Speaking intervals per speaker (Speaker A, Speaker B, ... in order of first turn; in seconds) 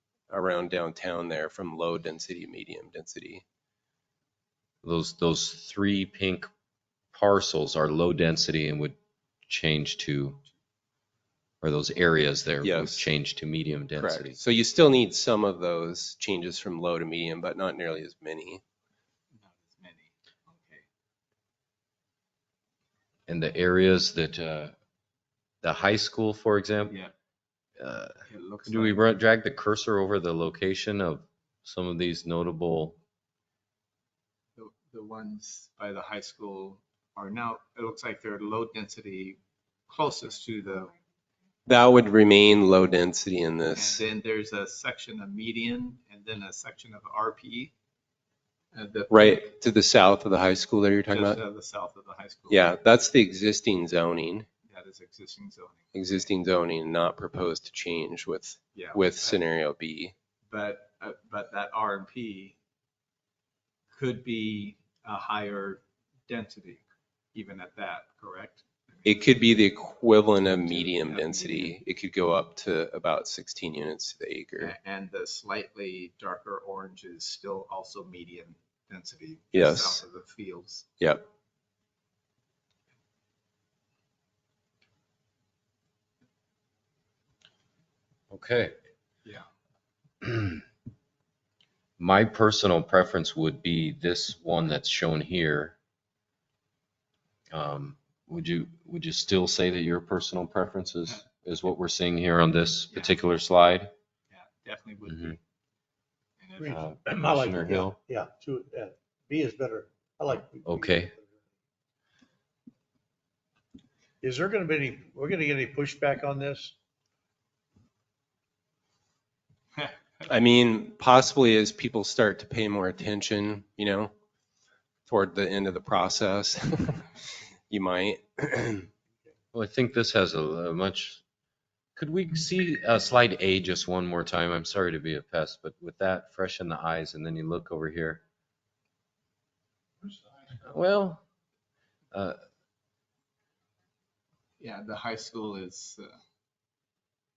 Speaker A: 0.3-3.4, 12.6-13.1, 14.0-18.6, 41.7-44.0, 49.1-51.4, 52.5-54.5, 55.9-60.1, 69.0-74.7, 79.5-80.0, 81.0-81.2, 120.3-124.1, 125.1-128.9
Speaker B: 4.8-6.5, 7.1-10.4, 11.6-14.4, 23.3-24.7, 25.6-26.9, 27.8-33.0, 88.3-88.8, 90.2-90.6, 92.0-95.8, 97.5-103.9, 105.1-105.4, 106.7-108.0, 110.7-111.1, 129.5-131.2, 131.9-138.2, 140.6-141.2, 142.1-142.4
Speaker C: 19.4-20.8, 26.9-27.1, 28.2-29.1, 34.5-40.9, 43.7-47.7, 48.7-49.5, 51.1-52.7, 54.6-56.2, 58.7-59.4, 60.5-62.5, 63.9-68.6, 70.6-71.8, 74.6-80.9, 104.3-105.4, 106.4-106.8, 144.6-146.2
Speaker D: 106.6-111.5, 114.2-116.7